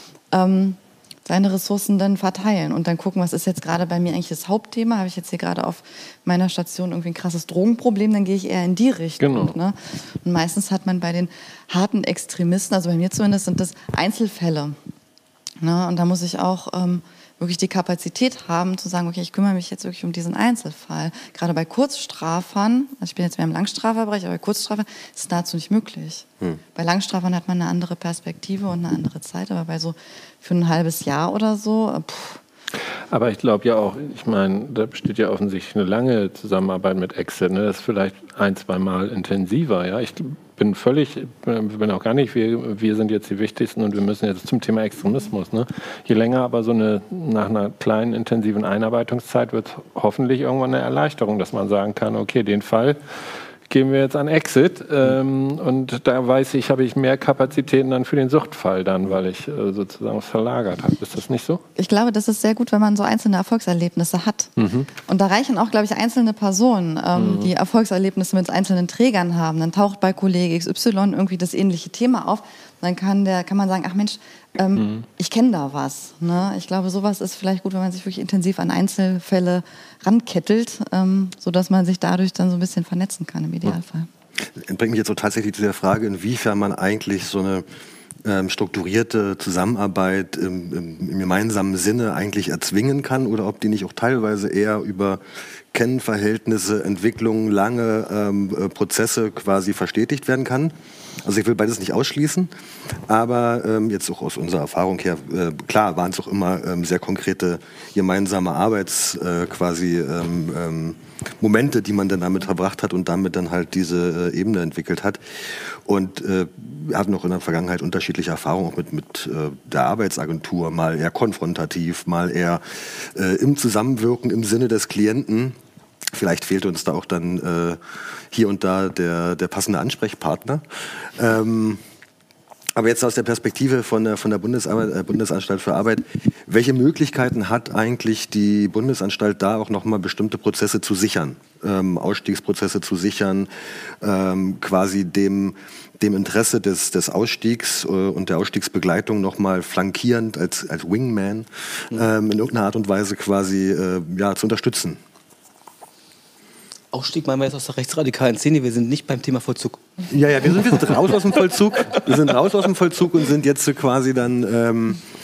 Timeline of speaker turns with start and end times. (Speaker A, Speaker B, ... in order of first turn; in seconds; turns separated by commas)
Speaker A: 0.3-14.8, Speaker B: 9.2-9.5, Speaker A: 15.6-32.4, Speaker B: 33.1-53.0, Speaker B: 53.7-61.6, Speaker A: 61.8-84.1, Speaker B: 64.6-64.9, Speaker B: 67.2-67.5, Speaker B: 74.8-75.0, Speaker C: 84.5-87.6, Speaker C: 88.2-95.2, Speaker C: 95.7-102.5, Speaker C: 103.1-125.6, Speaker C: 126.1-127.8, Speaker C: 128.3-131.8, Speaker C: 132.8-143.5, Speaker C: 144.0-155.0, Speaker D: 156.9-159.8, Speaker C: 160.1-165.0